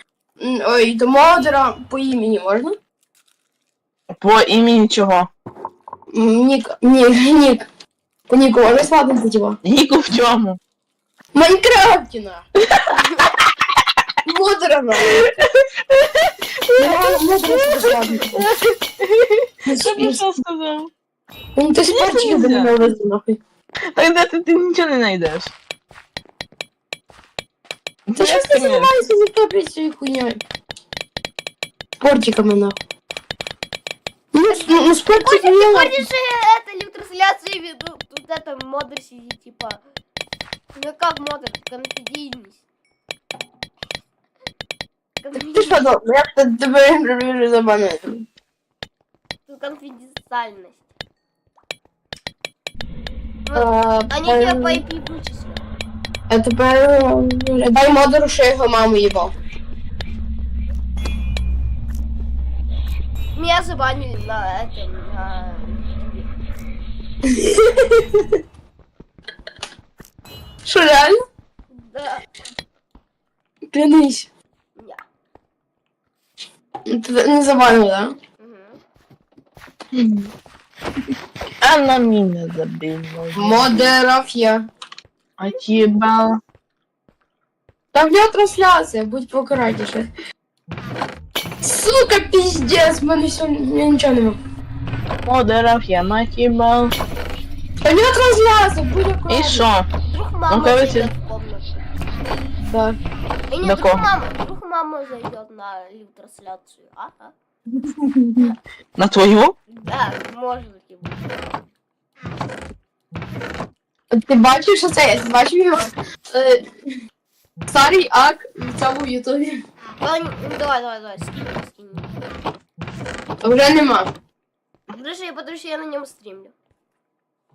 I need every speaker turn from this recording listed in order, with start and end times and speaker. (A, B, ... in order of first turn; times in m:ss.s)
0:00.4-0:02.7 A
0:04.1-0:05.3 B
0:06.1-0:07.6 A
0:08.3-0:09.6 A
0:09.6-0:10.6 B
0:11.3-0:12.4 A
0:12.6-0:13.3 B
0:14.2-0:15.2 A
0:15.0-0:20.9 B
0:16.8-0:18.5 A
0:19.6-0:20.2 A
0:21.6-0:23.4 A
0:21.8-0:22.7 B
0:23.9-0:25.5 B
0:28.1-0:29.0 B
0:28.2-0:30.4 A
0:32.0-0:32.8 A
0:34.3-0:36.0 A
0:35.2-0:39.8 C
0:40.7-0:42.6 C
0:45.2-0:45.9 C
0:45.4-0:48.2 A
0:49.5-0:50.9 C
0:53.4-0:55.6 C
0:53.5-0:54.8 A
0:56.3-0:59.3 A
1:03.3-1:06.3 C
1:07.3-1:08.3 A
1:10.6-1:11.1 A
1:11.7-1:12.3 C
1:13.7-1:14.3 A
1:14.8-1:15.0 C
1:16.9-1:18.1 A
1:18.4-1:18.8 C
1:19.9-1:20.3 B
1:21.6-1:24.0 B
1:23.3-1:24.7 A
1:25.4-1:26.4 B
1:25.5-1:25.9 C
1:27.9-1:30.1 A
1:31.6-1:34.4 A
1:35.2-1:36.9 B
1:37.8-1:39.6 A
1:39.3-1:39.9 B
1:40.1-1:41.8 C
1:40.5-1:41.1 B
1:42.6-1:43.0 A
1:43.5-1:47.3 C
1:43.6-1:44.1 B
1:47.8-1:48.5 A
1:49.0-1:49.5 B
1:49.7-1:51.5 C
1:54.1-1:56.6 A
1:57.7-1:59.6 A
2:00.0-2:02.1 C
2:03.4-2:04.1 A
2:04.9-2:06.5 C